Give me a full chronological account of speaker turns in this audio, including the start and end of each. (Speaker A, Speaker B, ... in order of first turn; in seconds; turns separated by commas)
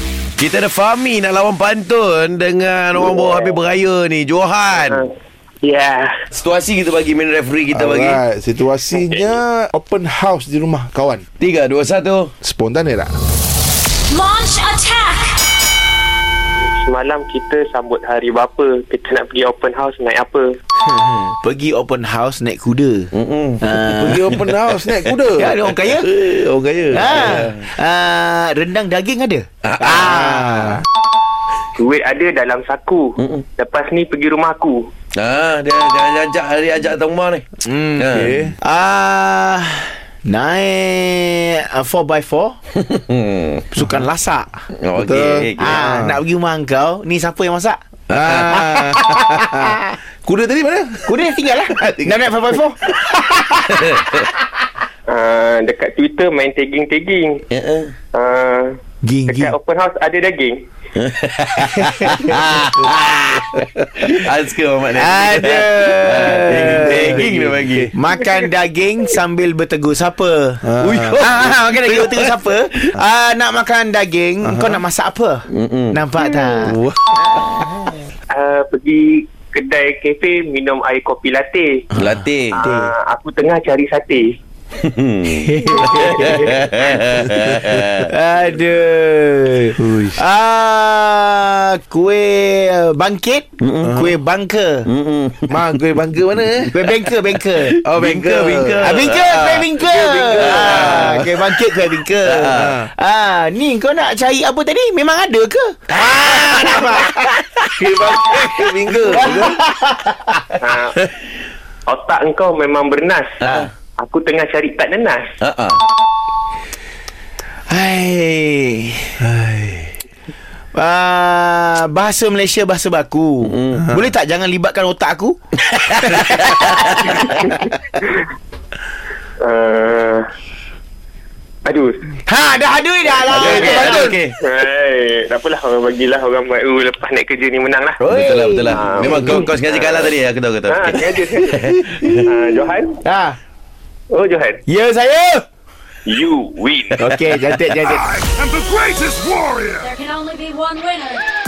Speaker A: 0.4-5.0, Speaker B: 4.8-5.1, Speaker B: 5.6-6.1, Speaker A: 6.3-8.2, Speaker C: 7.7-11.3, Speaker B: 8.9-9.3, Speaker A: 11.4-12.3, Speaker C: 12.4-13.1, Speaker D: 14.1-15.4, Speaker B: 16.6-20.6, Speaker E: 21.1-24.2, Speaker A: 23.1-25.1, Speaker C: 23.9-25.5, Speaker E: 25.4-26.1, Speaker A: 25.7-27.7, Speaker E: 26.9-30.8, Speaker A: 29.6-30.8, Speaker B: 31.8-34.9, Speaker A: 33.2-33.5, Speaker A: 35.2-37.5, Speaker E: 37.6-38.0, Speaker A: 38.0-38.4, Speaker C: 38.1-38.6, Speaker E: 38.6-42.6, Speaker A: 42.8-43.7, Speaker E: 43.7-49.9, Speaker A: 44.8-45.8, Speaker C: 45.6-46.2, Speaker C: 48.1-51.1, Speaker A: 48.2-48.5, Speaker E: 51.1-54.4, Speaker C: 51.8-52.1, Speaker A: 53.9-54.2, Speaker B: 55.1-57.4, Speaker A: 57.5-57.9, Speaker B: 58.1-58.7, Speaker E: 59.0-59.5, Speaker B: 59.3-60.6, Speaker A: 61.0-63.4, Speaker E: 61.8-63.5, Speaker A: 64.0-67.9, Speaker E: 65.0-67.3, Speaker C: 66.5-67.9, Speaker E: 67.9-76.8, Speaker C: 70.6-71.3, Speaker A: 70.8-72.3, Speaker C: 74.4-74.8, Speaker A: 75.5-76.0, Speaker C: 76.2-77.6, Speaker B: 78.3-81.9, Speaker A: 82.0-82.6, Speaker B: 82.5-84.3, Speaker E: 82.6-82.9, Speaker A: 84.8-88.1, Speaker E: 85.3-86.5, Speaker B: 85.9-86.5, Speaker E: 88.0-94.9, Speaker C: 89.8-90.2, Speaker A: 93.6-93.9, Speaker C: 93.8-94.1, Speaker A: 94.9-95.8, Speaker C: 95.5-96.8, Speaker A: 96.4-99.7, Speaker E: 96.7-97.8, Speaker C: 97.8-101.3, Speaker E: 98.8-110.4, Speaker A: 100.4-101.5, Speaker A: 102.2-102.8, Speaker C: 102.5-102.9, Speaker C: 106.0-107.1, Speaker C: 107.8-109.7, Speaker B: 110.6-111.0, Speaker B: 111.9-113.4, Speaker A: 113.4-113.7, Speaker B: 114.0-115.3, Speaker A: 115.4-115.8, Speaker E: 117.7-119.2, Speaker C: 119.2-119.9, Speaker E: 120.7-128.0, Speaker A: 123.5-123.8, Speaker A: 125.9-127.2, Speaker B: 127.2-127.6, Speaker B: 129.4-130.2, Speaker B: 131.7-132.0, Speaker E: 132.3-134.2, Speaker A: 133.3-134.4, Speaker B: 133.4-138.0, Speaker A: 138.0-142.2, Speaker E: 138.1-139.5, Speaker B: 138.7-140.1, Speaker B: 140.7-141.7, Speaker B: 142.2-143.0, Speaker E: 143.1-143.4, Speaker B: 144.1-144.6, Speaker E: 144.7-145.5, Speaker B: 146.1-147.0, Speaker E: 147.0-148.2, Speaker C: 148.2-149.8, Speaker D: 149.8-151.2